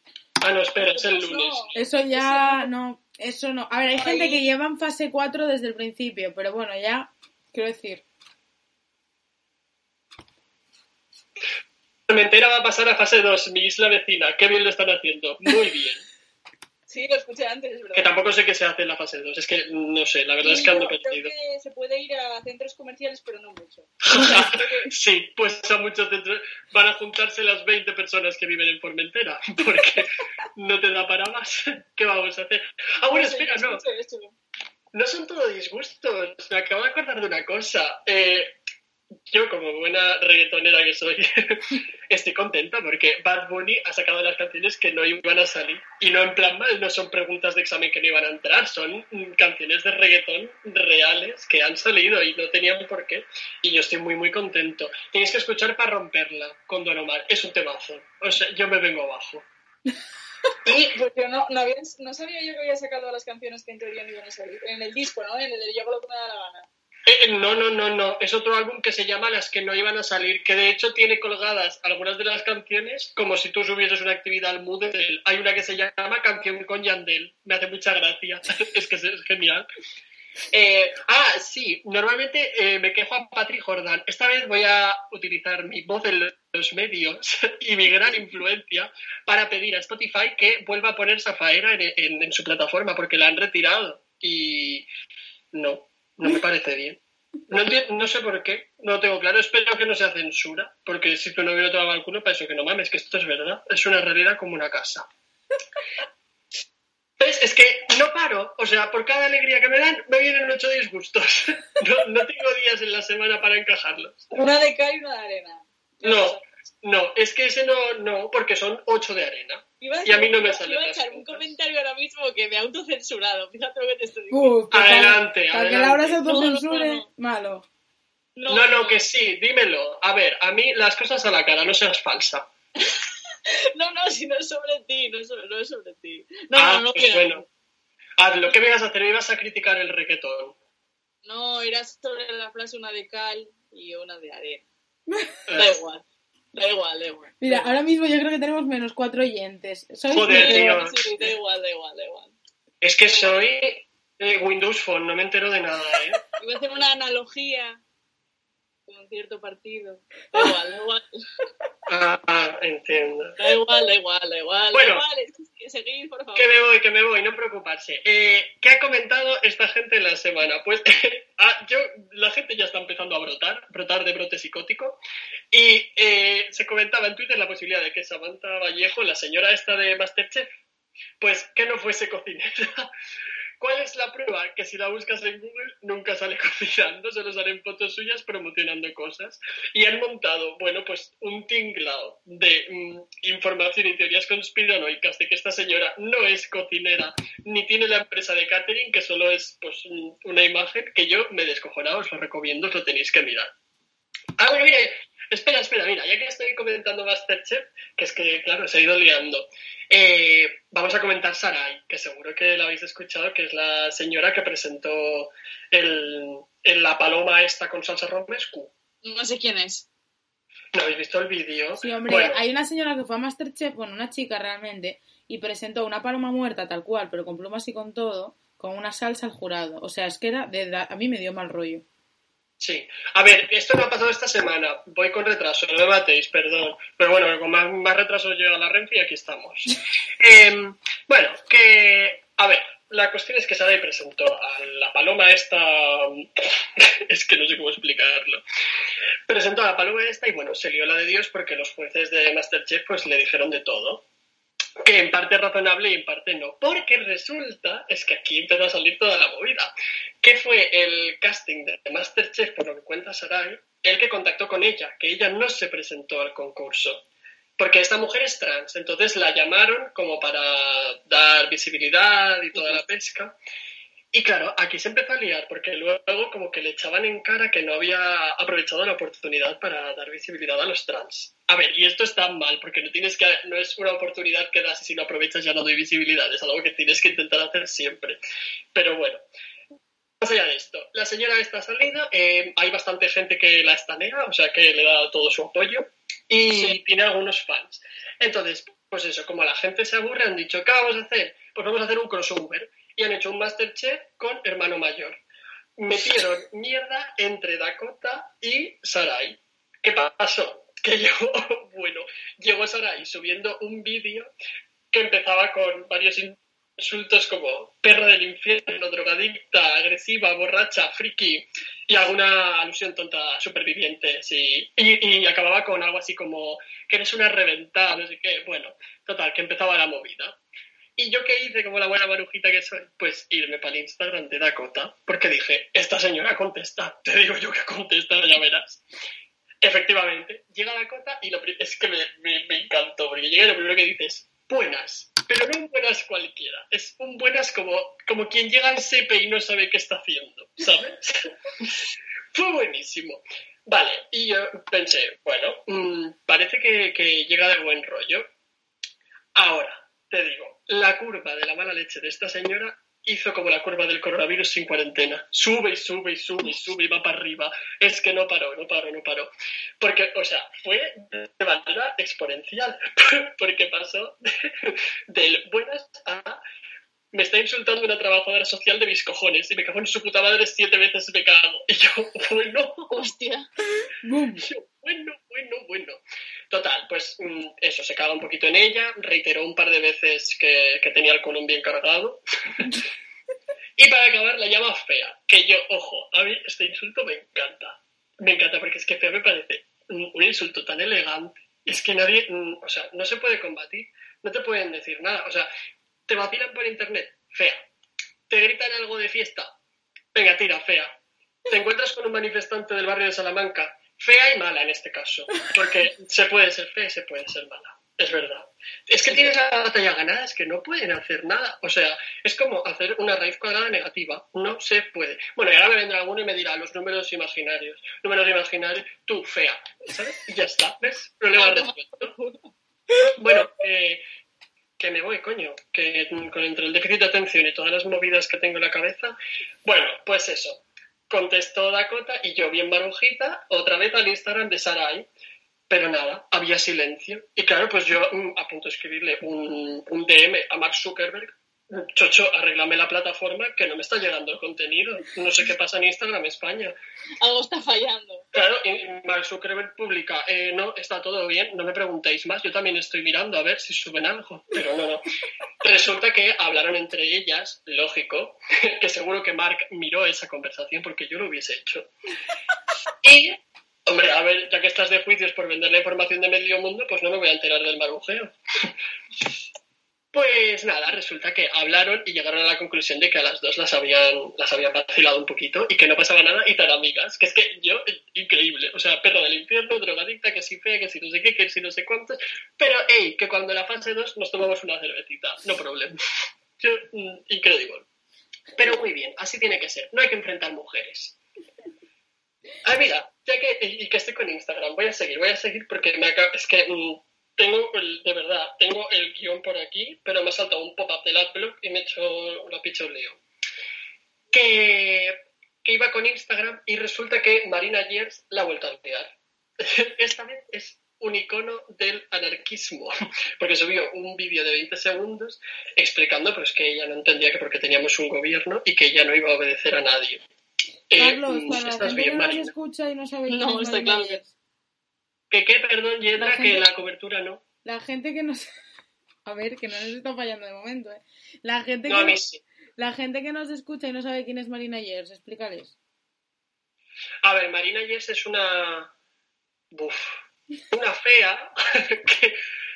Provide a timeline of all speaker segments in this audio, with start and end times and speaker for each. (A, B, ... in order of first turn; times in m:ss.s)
0:00.4-0:01.7 A
0:00.8-0:02.7 B
0:01.8-0:08.0 C
0:04.0-0:04.4 B
0:12.1-0:16.0 A
0:16.9-0:18.2 B
0:17.9-0:21.3 A
0:20.4-0:24.9 B
0:24.0-0:33.8 A
0:33.0-0:34.4 B
0:34.9-0:38.5 A
0:39.3-0:59.5 A
1:00.6-1:06.7 B
1:07.1-1:19.7 A
1:20.5-1:34.9 A
1:35.5-1:45.1 A
1:47.2-1:54.3 A
1:54.3-1:56.4 B
1:56.0-2:01.4 A
1:59.8-2:04.6 B
2:04.3-2:07.6 C
2:04.7-2:06.2 A
2:06.2-2:07.0 B
2:08.4-2:09.1 B
2:08.5-2:12.5 A
2:12.8-2:17.4 B
2:16.5-2:17.4 A
2:18.2-2:20.5 A
2:21.2-2:24.7 B
2:25.5-2:25.8 A
2:25.6-2:27.7 B
2:27.4-2:30.8 C
2:30.1-2:31.3 A
2:30.2-2:32.4 B
2:32.8-2:36.2 A
2:33.0-2:33.4 B
2:36.4-2:37.8 B
2:38.9-2:41.0 B
2:41.9-2:43.4 A
2:43.4-2:46.6 B
2:44.7-2:45.0 A
2:46.4-2:55.0 A
2:55.5-3:00.5 A
3:01.2-3:02.9 A
3:03.6-3:23.5 A
3:24.4-3:38.7 A
3:39.0-3:39.9 B
3:40.7-3:42.4 A
3:41.8-3:51.8 C
3:52.6-4:08.4 A
4:09.3-4:14.0 A
4:14.8-4:27.0 A
4:27.6-4:33.4 A
4:34.1-4:48.2 A
4:48.7-4:49.2 A
4:50.2-5:05.2 A
4:56.5-4:56.8 B
5:05.8-5:14.3 A
5:14.9-5:30.4 A
5:31.0-5:38.8 A
5:39.6-5:51.7 A
5:52.3-5:58.3 A
5:59.3-6:16.4 A
6:17.1-6:23.0 A
6:22.9-6:23.5 B
6:24.0-6:24.4 C
6:24.4-6:26.0 A
6:26.5-6:32.8 A
6:33.8-6:45.5 A
6:46.1-6:47.6 A
6:48.3-6:49.5 A
6:50.1-6:51.0 A
6:51.5-7:12.1 A
7:11.3-7:12.5 B
7:13.2-7:14.0 A
7:14.8-7:25.1 A
7:25.7-7:36.7 A
7:37.2-7:38.2 B
7:38.3-7:45.0 A
7:45.6-7:51.9 A
7:53.0-7:58.7 A
8:00.1-8:16.0 A
8:16.6-8:17.8 A
8:18.6-8:21.2 A
8:22.6-8:33.2 A
8:34.3-8:50.2 A
8:50.9-8:52.5 A
8:50.9-8:54.3 C
8:53.3-8:54.2 B
8:55.3-8:57.4 A
8:56.2-8:56.6 C
8:57.6-8:58.4 C
8:59.2-9:02.2 C
9:01.9-9:02.4 A
9:02.8-9:05.7 C
9:07.2-9:08.9 A
9:09.7-9:10.1 A
9:10.7-9:12.4 A